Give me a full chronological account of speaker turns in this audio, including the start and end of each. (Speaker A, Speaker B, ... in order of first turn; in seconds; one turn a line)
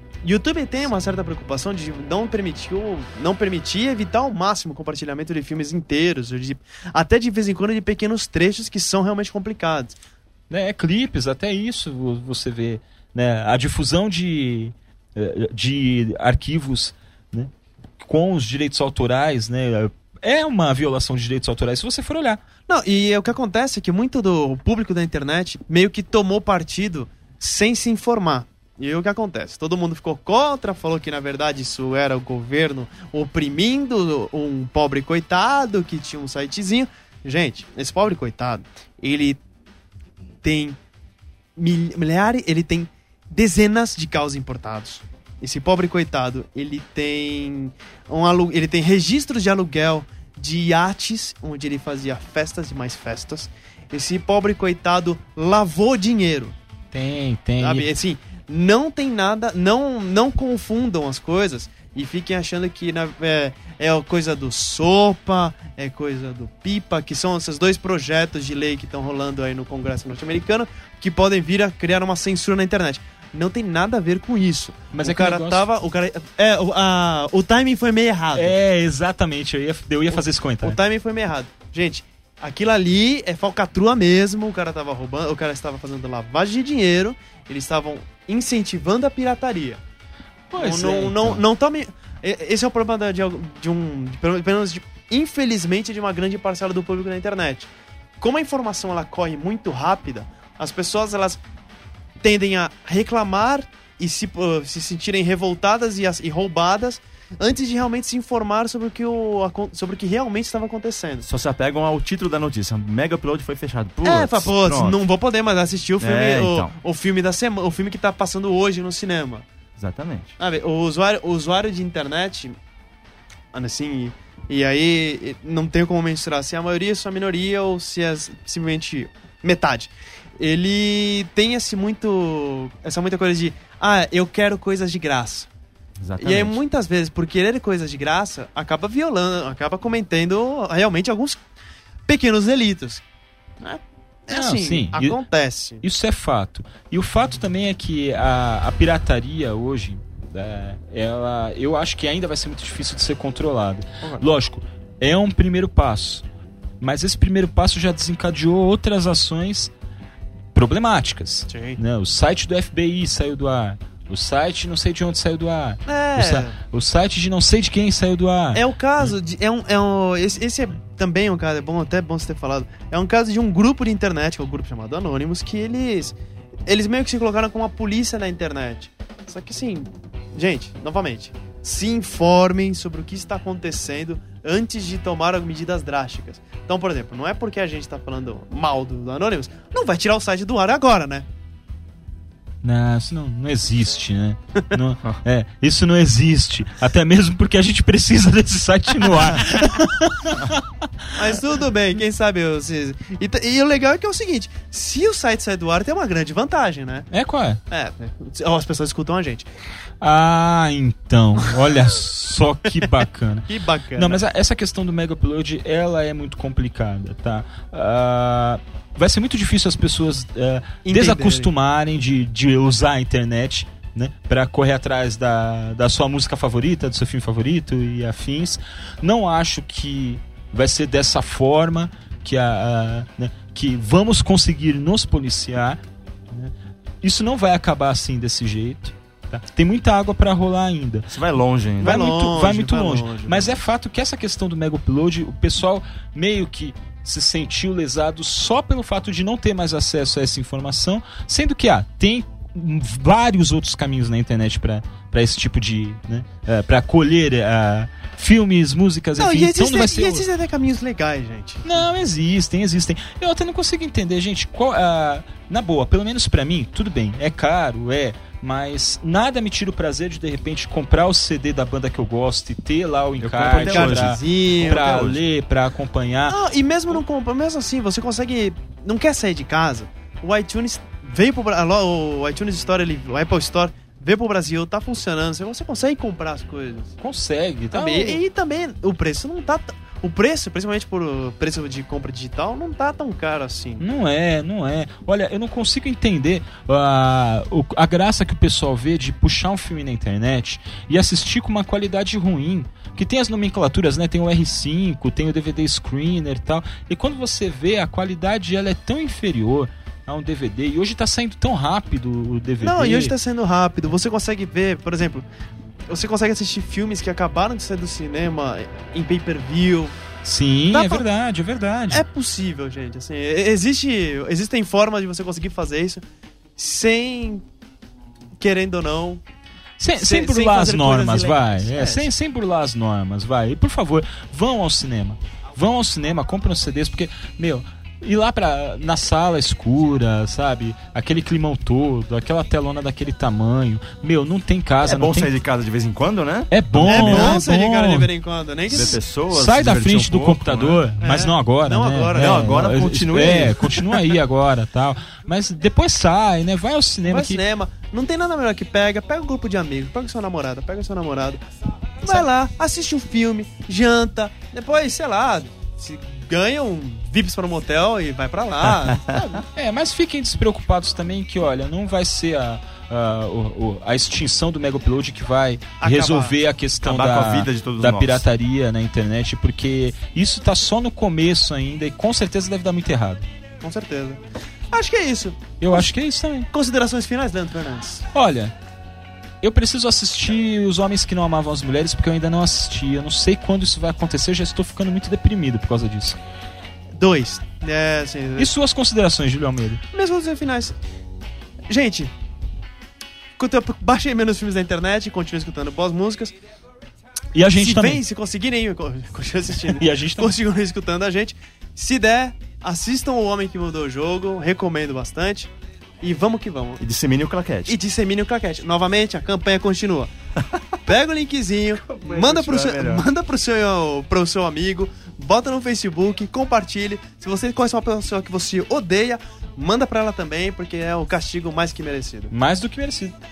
Speaker A: 0.2-9.9
Speaker B: 10.5-17.5
Speaker B: 18.0-22.4
Speaker A: 22.7-39.4
Speaker A: 40.4-40.8
Speaker A: 41.5-56.5
Speaker B: 56.9-57.9
Speaker A: 57.6-78.5
Speaker B: 74.9-75.7
Speaker B: 78.3-80.8
Speaker A: 80.1-89.8
Speaker B: 90.5-91.4
Speaker A: 90.5-97.7
Speaker A: 98.2-101.4
Speaker A: 102.2-111.3
Speaker C: 111.2-115.0
Speaker A: 114.0-119.5
Speaker C: 116.0-116.7
Speaker C: 119.8-120.3
Speaker A: 120.4-122.6
Speaker A: 123.5-135.5
Speaker C: 136.0-136.6
Speaker A: 136.2-141.4
Speaker A: 142.1-143.0
Speaker A: 143.6-145.8
Speaker B: 144.3-145.2
Speaker B: 145.8-156.2
Speaker B: 156.8-159.7
Speaker B: 160.5-169.1
Speaker A: 161.5-161.8
Speaker A: 165.8-166.5
Speaker A: 168.5-176.1
Speaker A: 176.7-191.2
Speaker B: 192.6-200.7
Speaker A: 201.2-207.1
Speaker B: 207.1-207.6
Speaker A: 207.7-209.5
Speaker B: 210.0-241.1
Speaker A: 213.5-214.2
Speaker A: 220.8-221.5
Speaker C: 241.1-242.0
Speaker A: 241.8-243.6
Speaker B: 241.8-260.2
Speaker A: 259.2-261.8
Speaker B: 261.6-276.4
Speaker C: 273.2-275.2
Speaker A: 273.6-274.9
Speaker A: 276.3-286.9
Speaker B: 287.0-288.2
Speaker A: 287.7-293.8
Speaker B: 293.8-313.1
Speaker A: 312.6-315.2
Speaker A: 315.9-319.9
Speaker B: 320.2-322.0
Speaker A: 320.7-321.0
Speaker A: 321.9-326.0
Speaker A: 326.6-327.4
Speaker A: 328.4-329.2
Speaker B: 329.8-345.3
Speaker A: 329.9-332.1
Speaker C: 344.8-347.4
Speaker B: 346.5-348.1
Speaker A: 346.8-349.0
Speaker C: 348.7-350.8
Speaker B: 348.7-357.4
Speaker A: 351.0-352.7
Speaker C: 352.1-354.1
Speaker A: 357.1-361.4
Speaker A: 362.0-369.4
Speaker B: 369.5-383.2
Speaker A: 375.8-376.3
Speaker C: 376.8-378.2
Speaker A: 383.6-385.9
Speaker B: 385.6-386.5
Speaker A: 386.5-388.0
Speaker B: 388.1-388.5
Speaker B: 389.4-396.2
Speaker A: 397.0-398.5
Speaker B: 398.4-399.8
Speaker A: 399.9-400.8
Speaker A: 401.7-402.1
Speaker A: 403.4-406.4
Speaker B: 407.3-408.0
Speaker A: 407.6-415.5
Speaker B: 409.7-410.3
Speaker A: 416.0-416.8
Speaker C: 416.8-417.8
Speaker A: 417.7-420.1
Speaker A: 420.8-432.3
Speaker C: 421.9-423.1
Speaker B: 432.3-433.1